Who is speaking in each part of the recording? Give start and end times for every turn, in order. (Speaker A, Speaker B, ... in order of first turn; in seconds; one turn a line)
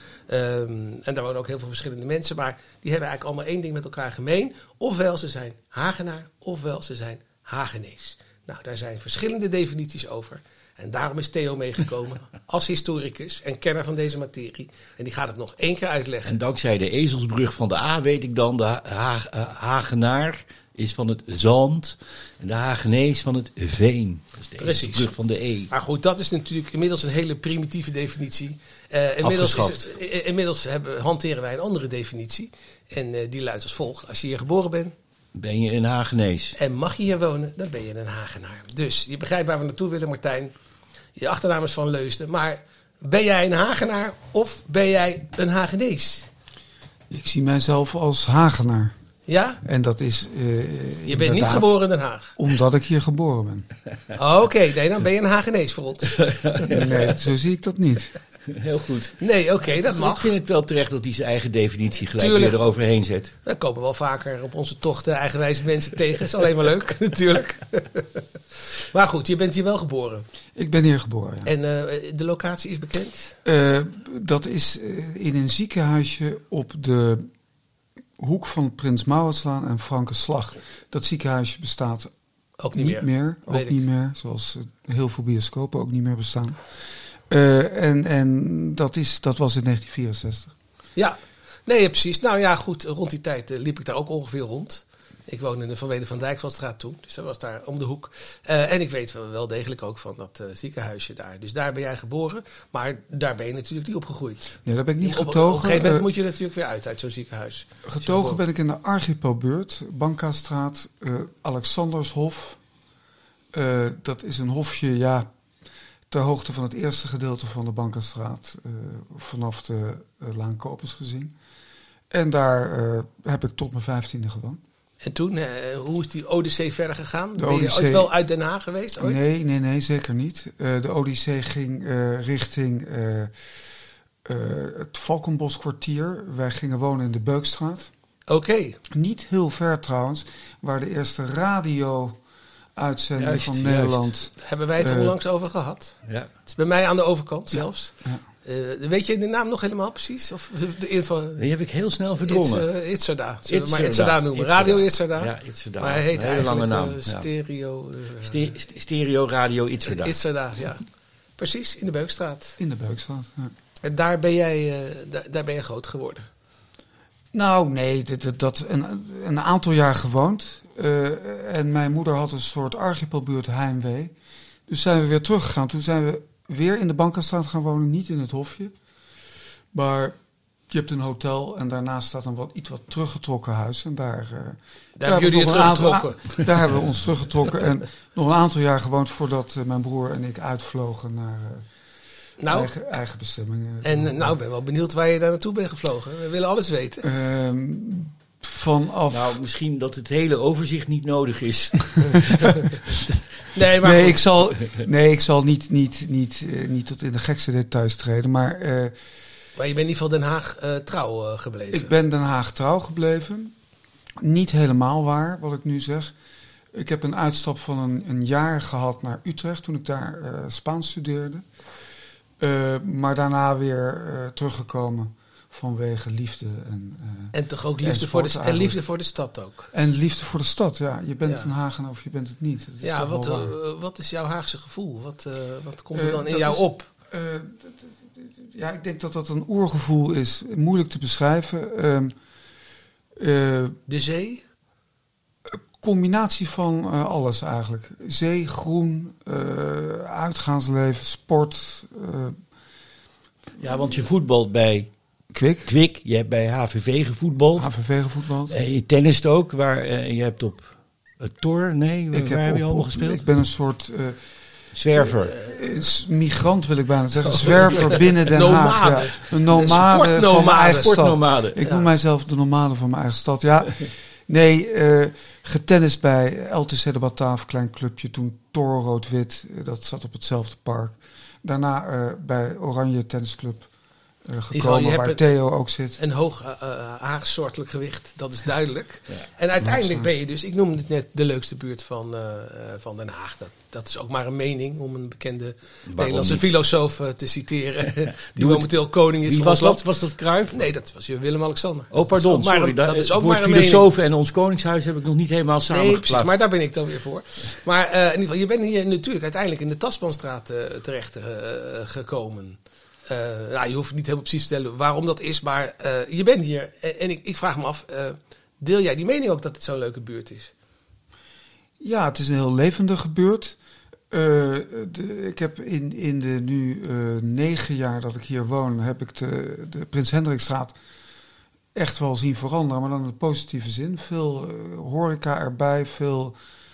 Speaker A: 0.3-16.4
Speaker B: 16.2-25.7
Speaker A: 24.6-25.1
Speaker A: 25.7-34.9
Speaker B: 29.2-29.9
Speaker B: 35.3-36.6
Speaker A: 36.6-40.5
Speaker A: 41.1-46.3
Speaker C: 47.1-48.9
Speaker A: 49.3-49.6
Speaker C: 49.6-51.8
Speaker A: 51.0-52.4
Speaker C: 52.3-53.7
Speaker A: 54.1-56.6
Speaker B: 56.3-56.7
Speaker C: 56.7-58.1
Speaker B: 58.5-63.3
Speaker A: 59.2-60.3
Speaker A: 62.2-62.6
Speaker A: 63.4-68.2
Speaker A: 68.9-70.2
Speaker C: 70.5-71.5
Speaker A: 71.4-73.3
Speaker C: 73.4-77.3
Speaker C: 78.2-82.1
Speaker A: 82.6-83.8
Speaker C: 82.7-86.6
Speaker C: 87.3-90.5
Speaker A: 91.0-108.4
Speaker C: 104.6-106.1
Speaker C: 107.8-112.6
Speaker C: 113.5-115.3
Speaker C: 116.1-121.3
Speaker C: 122.1-124.6
Speaker A: 125.0-129.2
Speaker C: 127.4-128.1
Speaker C: 129.0-133.3
Speaker C: 134.2-137.9
Speaker A: 138.3-138.8
Speaker C: 138.9-142.2
Speaker C: 142.8-145.1
Speaker B: 143.2-144.1
Speaker A: 144.4-151.4
Speaker B: 151.4-152.7
Speaker A: 152.2-158.4
Speaker B: 153.4-157.3
Speaker B: 158.2-160.2
Speaker A: 159.9-160.8
Speaker A: 161.4-162.6
Speaker C: 162.6-163.5
Speaker A: 163.8-166.3
Speaker C: 167.3-174.1
Speaker C: 174.7-178.7
Speaker C: 179.7-180.2
Speaker C: 180.7-191.7
Speaker A: 184.9-186.3
Speaker A: 192.4-192.7
Speaker C: 192.5-194.3
Speaker A: 193.8-197.1
Speaker C: 197.0-199.3
Speaker B: 199.1-203.0
Speaker A: 203.5-204.2
Speaker C: 203.8-208.9
Speaker A: 209.5-211.9
Speaker C: 211.7-213.5
Speaker C: 214.2-216.1
Speaker C: 216.7-221.4
Speaker C: 222.4-228.8
Speaker A: 227.3-229.7
Speaker C: 229.7-233.5
Speaker A: 232.8-236.9
Speaker C: 235.9-242.1
Speaker C: 243.2-243.8
Speaker A: 243.9-244.4
Speaker C: 245.5-252.4
Speaker B: 253.6-254.9
Speaker C: 255.3-255.7
Speaker B: 255.6-257.8
Speaker C: 257.6-258.5
Speaker B: 258.5-263.2
Speaker C: 262.1-264.3
Speaker B: 264.7-265.4
Speaker C: 265.0-283.7
Speaker A: 267.2-271.9
Speaker B: 270.6-271.6
Speaker C: 284.2-286.0
Speaker A: 284.5-285.3
Speaker A: 286.0-303.9
Speaker C: 289.6-290.1
Speaker B: 295.9-296.5
Speaker B: 298.4-300.6
Speaker B: 301.9-306.4
Speaker A: 305.7-320.5
Speaker C: 321.8-323.6
Speaker C: 324.1-330.7
Speaker C: 331.7-336.4